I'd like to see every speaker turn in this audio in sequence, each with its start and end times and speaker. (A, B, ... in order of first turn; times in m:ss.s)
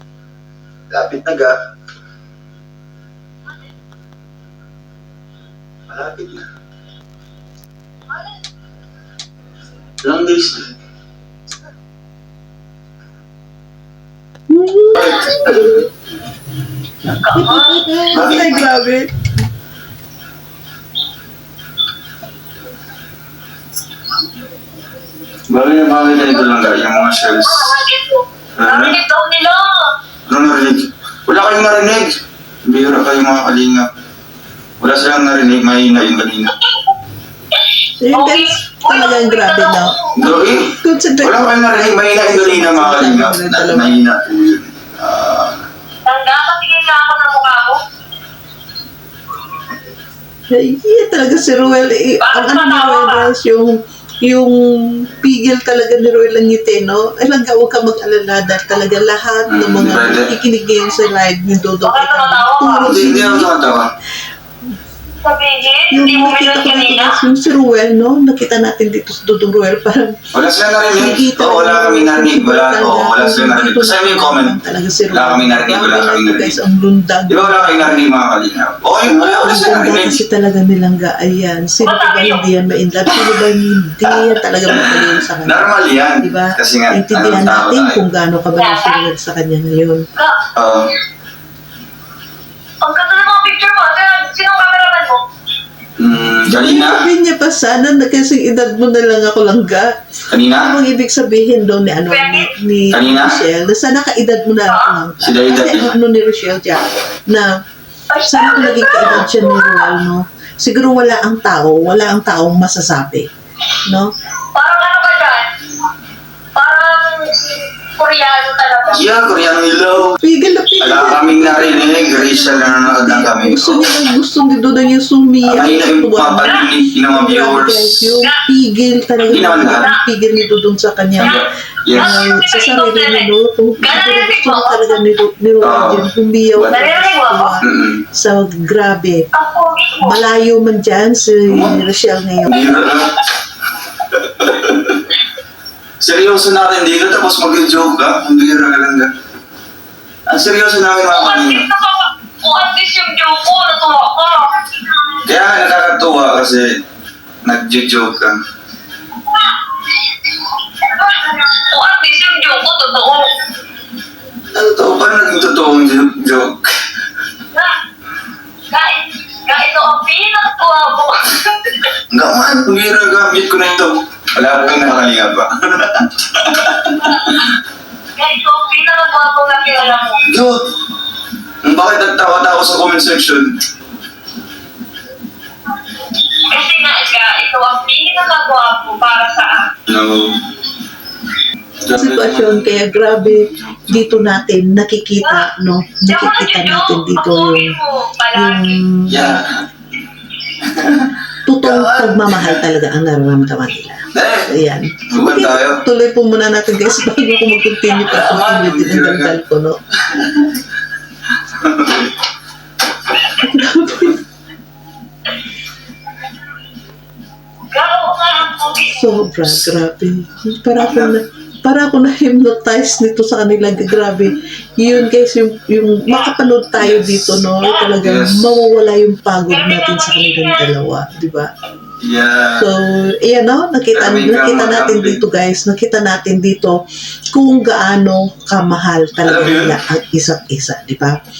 0:00.9-0:01.6 A
0:05.9-0:06.5 A
0:10.0-0:10.7 A
0:14.5-0:15.8 B
0:14.9-0:15.9 A
0:17.2-0:17.9 C
0:17.3-0:19.1 B
0:18.1-0:18.6 A
0:25.5-0:27.8 A
0:26.2-0:29.9 C
0:28.6-0:29.0 A
0:30.3-0:33.9 A
0:34.8-0:36.5 A
0:38.0-0:40.0 B
0:38.1-0:40.3 C
0:40.2-0:45.6 A
0:40.8-0:43.9 B
0:46.0-0:47.8 C
0:50.5-1:03.5 B
0:52.2-0:53.3 C
0:59.5-1:00.3 A
1:01.8-1:03.0 C
1:02.8-1:03.9 A
1:05.2-1:07.2 C
1:05.9-1:10.2 B
1:10.3-1:14.6 A
1:10.9-1:18.0 B
1:15.1-1:16.6 A
1:17.3-1:20.2 A
1:19.4-1:25.6 B
1:21.8-1:22.5 C
1:24.7-1:28.0 A
1:26.2-1:30.0 B
1:28.5-1:29.1 C
1:30.1-1:30.4 C
1:30.5-1:30.9 A
1:32.8-1:35.2 C
1:36.0-1:37.1 A
1:36.5-1:39.9 B
1:40.3-1:40.8 A
1:40.5-1:47.5 B
1:42.1-1:42.5 C
1:42.9-1:43.4 A
1:45.2-1:45.9 A
1:48.1-1:50.0 C
1:48.3-1:53.3 B
1:53.8-1:54.1 B
1:54.5-1:55.5 C
1:56.5-1:59.1 C
1:58.9-2:00.2 A
2:00.2-2:19.3 B
2:00.8-2:03.9 A
2:05.4-2:08.2 A
2:09.3-2:09.9 A
2:09.4-2:10.0 C
2:11.2-2:12.2 A
2:12.0-2:14.9 C
2:15.6-2:16.7 A
2:16.7-2:17.6 C
2:17.6-2:18.0 A
2:19.3-2:20.2 C
2:20.0-2:22.8 B
2:21.5-2:21.8 A
2:22.4-2:23.3 A
2:24.1-2:25.0 A
2:26.0-2:29.1 A
2:30.3-2:31.7 A
2:31.1-2:34.6 C
2:35.2-2:36.7 A
2:37.4-2:38.4 A
2:40.8-2:43.4 C
2:44.5-2:46.7 A
2:48.7-2:51.9 C
2:52.1-2:57.4 A
2:58.2-3:00.2 C
3:00.2-3:00.6 A
3:01.6-3:03.5 A
3:06.5-3:09.7 C
3:09.9-3:10.4 A
3:11.8-3:14.4 A
3:11.9-3:17.8 B
3:15.2-3:15.5 C
3:16.1-3:18.8 C
3:18.3-3:19.4 B
3:19.1-3:19.7 A
3:20.6-3:22.6 A
3:21.4-3:29.8 B
3:24.1-3:24.5 A
3:25.1-3:25.8 A
3:27.0-3:28.1 C
3:28.0-3:29.4 A
3:30.0-3:30.6 A
3:31.4-3:32.1 A
3:33.4-3:34.2 B
3:37.7-3:39.2 C
3:38.9-3:51.5 B
3:40.7-3:41.2 A
3:46.7-3:47.4 A
3:47.6-3:47.9 C
3:48.0-3:48.6 A
3:49.5-3:50.7 C
3:52.0-3:52.6 A
3:52.5-3:56.8 B
3:53.9-3:55.2 A
3:57.3-4:01.2 B
3:59.2-3:59.8 A